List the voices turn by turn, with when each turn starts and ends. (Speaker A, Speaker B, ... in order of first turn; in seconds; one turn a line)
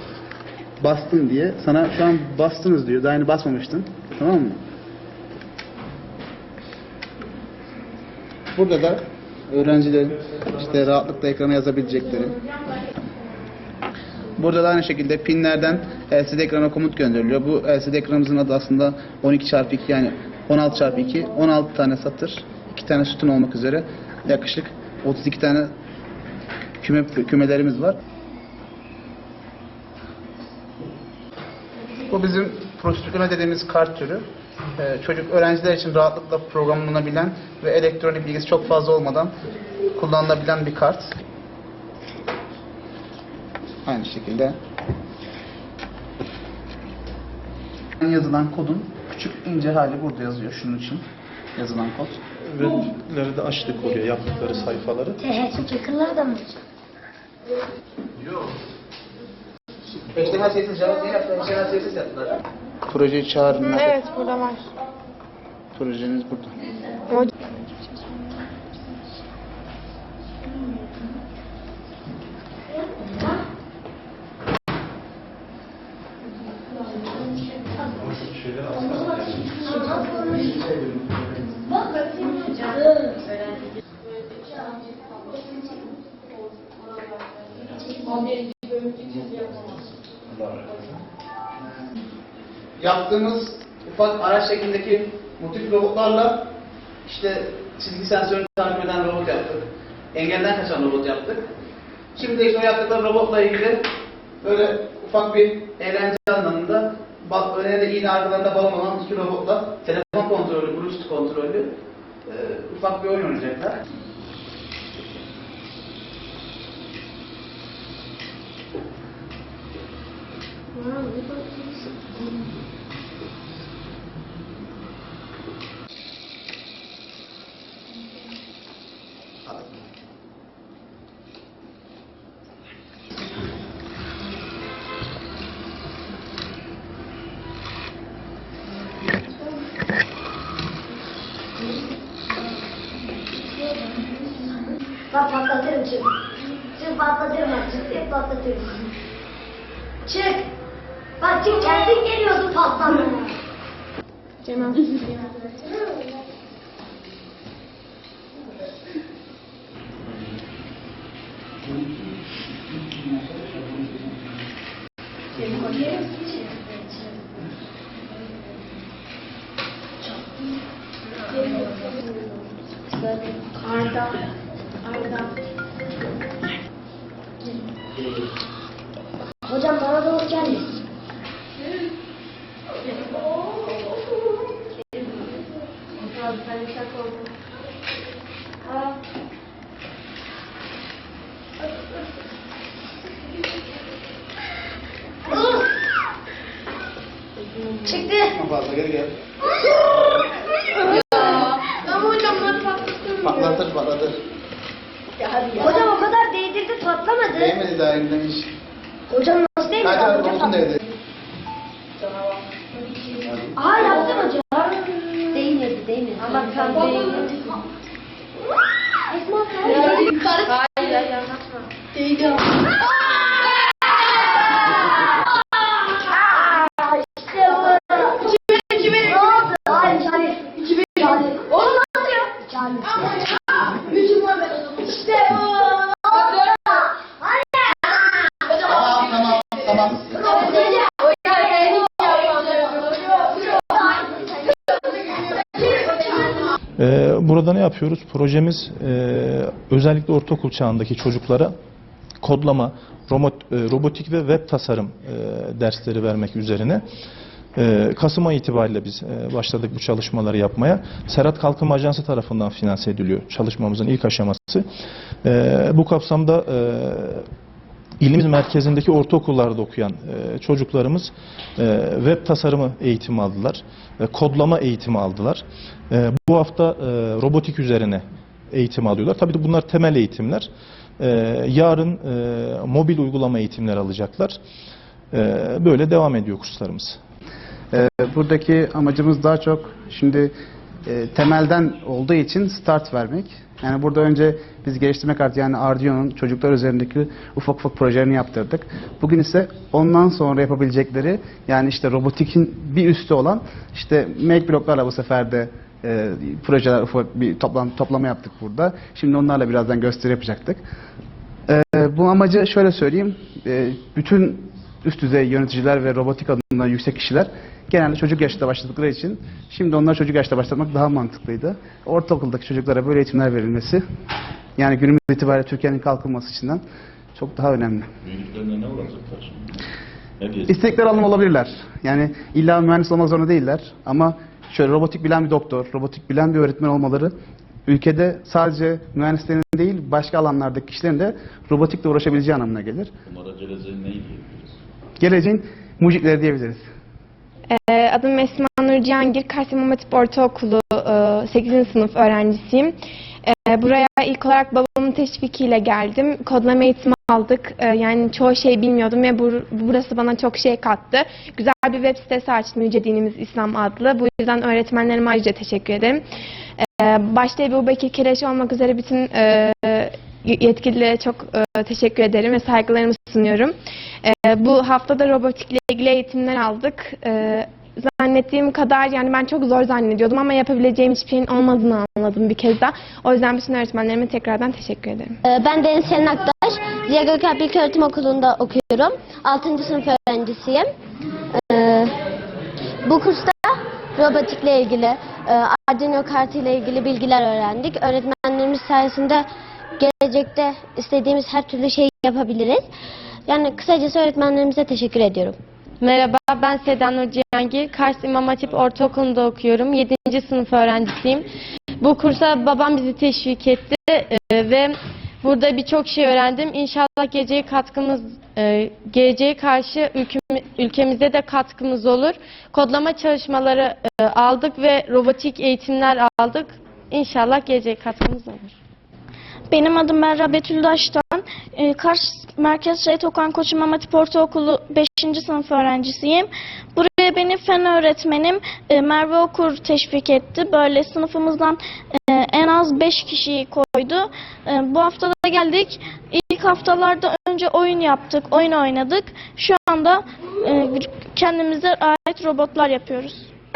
Speaker A: 0.8-4.6
Speaker A: 8.6-12.4
Speaker A: 14.4-25.7
Speaker A: 26.8-28.0
Speaker A: 32.1-34.2
Speaker A: 34.8-39.3
Speaker A: 39.9-41.1
Speaker A: 43.9-44.6
Speaker A: 48.0-51.0
Speaker A: 51.6-52.2
Speaker B: 52.5-55.2
Speaker C: 55.2-56.5
Speaker A: 60.1-62.3
Speaker A: 62.9-64.1
Speaker D: 63.7-64.6
Speaker A: 65.8-66.5
Speaker C: 72.7-73.4
Speaker B: 77.9-79.7
Speaker C: 79.6-80.5
Speaker A: 80.5-81.2
Speaker C: 82.5-83.0
Speaker A: 91.6-91.9
Speaker A: 92.8-96.5
Speaker A: 97.1-101.5
Speaker A: 102.2-103.8
Speaker A: 104.4-111.7
Speaker A: 112.3-113.8
Speaker E: 120.8-121.8
Speaker C: 145.1-146.1
Speaker C: 146.8-148.8
Speaker C: 150.1-150.5
Speaker C: 151.2-153.3
Speaker D: 154.4-155.1
Speaker A: 163.3-164.1
Speaker C: 179.5-180.7
Speaker F: 186.0-187.2
Speaker C: 197.8-198.3
Speaker A: 198.3-199.1
Speaker A: 203.2-204.2
Speaker C: 205.6-207.6
Speaker A: 207.3-208.5
Speaker C: 209.1-210.6
Speaker A: 209.8-210.8
Speaker C: 213.6-215.6
Speaker E: 215.3-217.2
Speaker F: 216.2-217.4
Speaker C: 219.1-220.1
Speaker F: 220.4-221.6
Speaker C: 226.2-233.6
Speaker C: 235.5-236.9
Speaker A: 238.6-240.3
Speaker C: 241.2-242.3
Speaker B: 246.8-251.5
Speaker B: 252.2-256.8
Speaker B: 257.6-264.6
Speaker B: 265.2-267.2
Speaker B: 268.0-280.5
Speaker B: 281.0-284.4
Speaker B: 285.1-287.0
Speaker A: 287.7-290.3
Speaker A: 290.9-310.6
Speaker A: 311.5-323.8
Speaker A: 324.6-326.6
Speaker A: 327.2-327.9
Speaker G: 328.1-329.6
Speaker G: 330.2-330.8
Speaker A: 330.5-337.1
Speaker A: 337.7-342.9
Speaker G: 343.1-344.5
Speaker A: 345.0-346.6
Speaker D: 347.5-366.1
Speaker D: 366.6-385.2
Speaker E: 385.2-390.7
Speaker E: 391.3-391.9
Speaker E: 392.8-399.2
Speaker E: 399.8-402.7
Speaker E: 403.3-405.4
Speaker F: 405.8-428.6
Speaker H: 429.5-453.3